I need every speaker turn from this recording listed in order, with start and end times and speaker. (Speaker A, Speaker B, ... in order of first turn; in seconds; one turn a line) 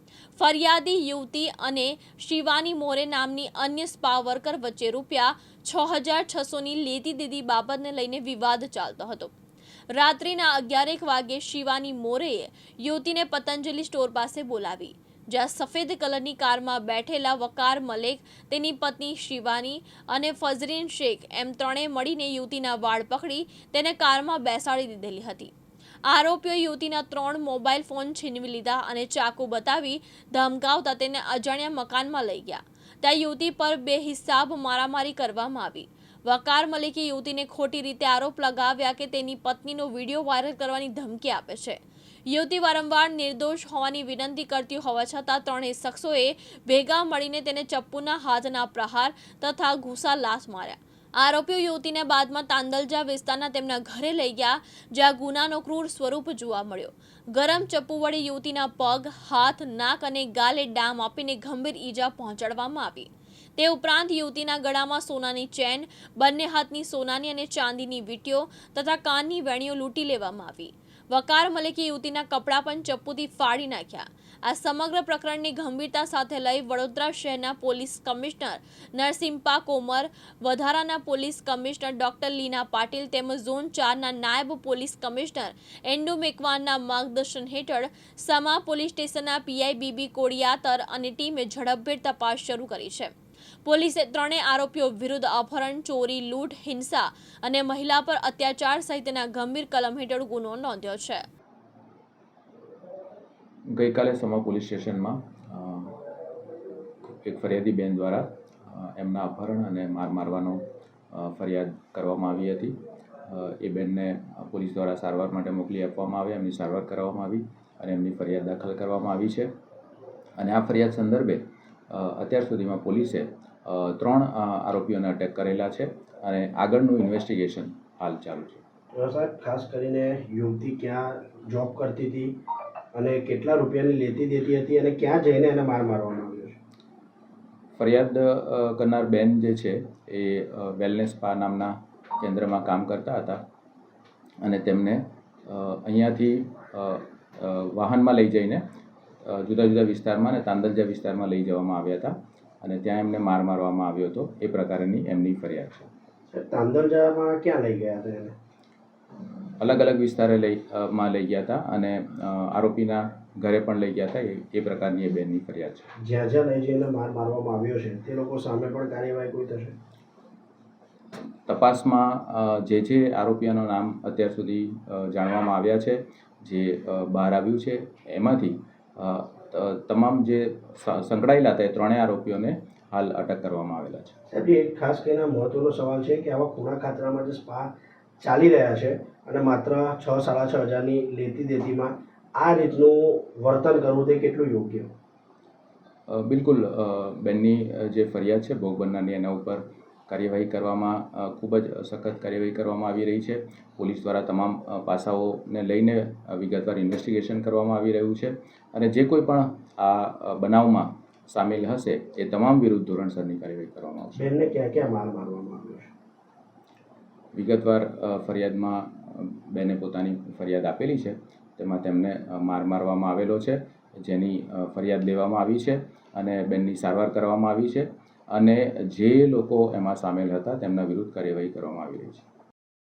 Speaker A: 0.3-9.3
Speaker A: 9.9-25.5
Speaker A: 26.1-93.1
Speaker A: 93.6-101.2
Speaker B: 103.7-106.0
Speaker B: 107.0-119.5
Speaker B: 120.4-128.6
Speaker C: 128.9-132.4
Speaker C: 132.9-136.6
Speaker B: 137.8-143.4
Speaker B: 144.4-148.6
Speaker B: 149.2-155.9
Speaker C: 156.3-158.3
Speaker B: 159.6-165.9
Speaker C: 166.0-169.8
Speaker B: 171.5-184.1
Speaker C: 184.3-194.9
Speaker B: 196.1-214.3
Speaker C: 214.2-215.9
Speaker B: 217.3-232.2